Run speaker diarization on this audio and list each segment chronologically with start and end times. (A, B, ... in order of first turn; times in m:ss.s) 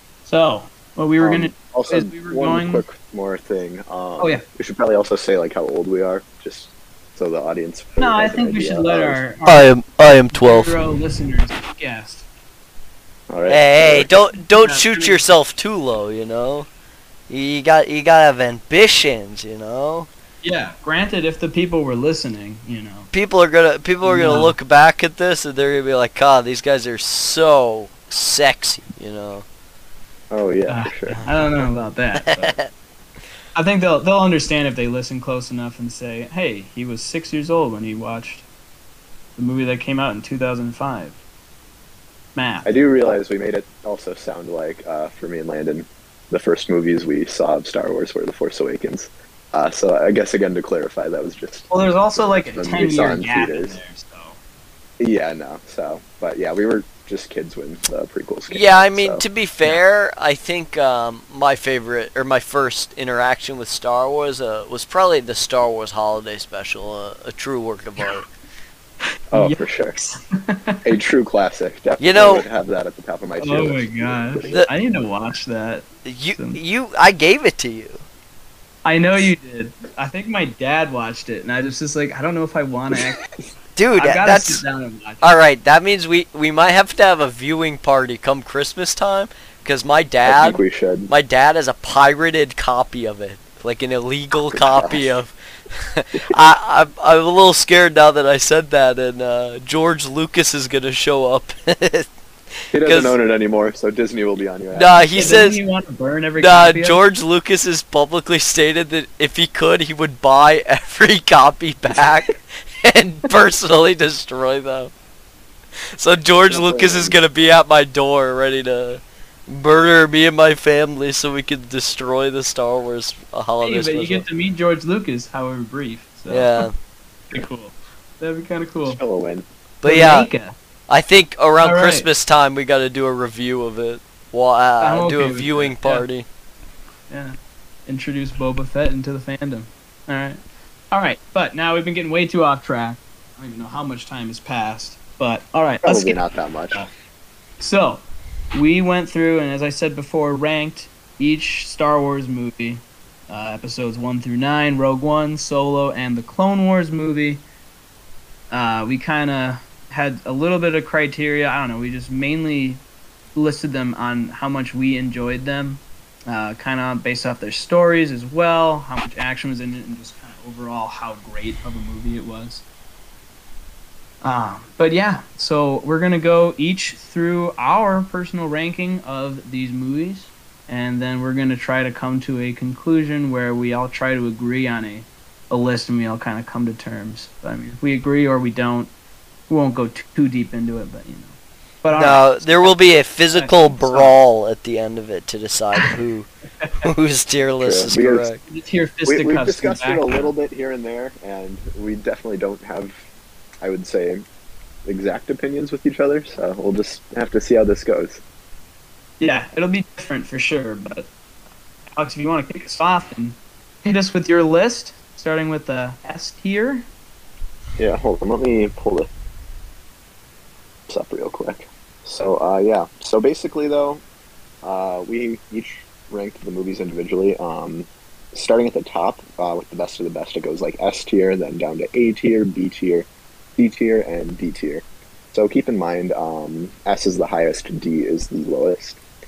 0:00.2-0:02.8 A
0:01.2-0:09.2 B
0:08.0-0:12.2 A
0:09.4-0:10.7 C
0:13.3-0:14.1 B
0:13.5-0:16.7 C
0:14.6-0:15.2 A
0:17.3-0:20.1 C
0:20.4-0:23.1 A
0:23.1-0:29.4 C
0:24.0-0:24.6 A
0:30.3-0:31.2 B
0:30.7-0:32.6 A
0:31.2-0:31.7 C
0:32.2-0:32.7 C
0:33.5-0:38.4 A
0:39.4-0:41.2 A
0:42.3-0:42.7 A
0:42.6-0:53.8 B
0:51.7-0:54.4 A
0:55.0-0:59.2 B
0:58.5-1:08.2 C
1:09.3-1:10.0 B
1:09.3-1:10.8 A
1:10.8-1:14.7 B
1:12.0-1:12.4 C
1:13.4-1:16.6 A
1:16.0-1:18.0 C
1:18.8-1:23.2 A
1:22.9-1:23.4 B
1:23.8-1:24.6 C
1:24.0-1:25.3 A
1:25.2-1:42.1 C
1:30.2-1:31.1 B
1:34.5-1:35.1 B
1:42.7-1:43.1 C
1:42.7-1:45.4 B
1:44.7-1:45.6 C
1:45.2-1:47.0 A
1:46.4-1:54.9 C
1:55.9-2:04.2 C
1:56.4-1:57.2 B
2:03.6-2:06.6 A
2:06.3-2:06.7 C
2:07.3-2:09.0 A
2:08.8-2:09.5 B
2:09.8-2:10.3 C
2:09.8-2:10.5 A
2:10.9-2:16.2 C
2:11.6-2:12.1 A
2:14.8-2:16.1 A
2:17.1-2:17.4 A
2:17.9-2:26.9 A
2:25.8-2:26.9 B
2:27.6-2:37.4 A
2:38.5-2:42.8 A
2:43.3-2:52.6 A
2:54.2-3:08.9 A
3:09.5-3:14.2 A
3:11.9-3:16.3 C
3:16.6-3:16.9 A
3:16.8-3:18.4 C
3:17.6-3:18.3 B
3:18.5-3:20.3 A
3:19.0-3:23.0 B
3:23.6-3:24.2 B
3:24.8-3:28.2 B
3:29.2-3:31.1 A
3:32.0-3:36.9 A
3:37.8-3:39.1 B
3:40.9-3:44.0 B
3:44.6-3:59.0 B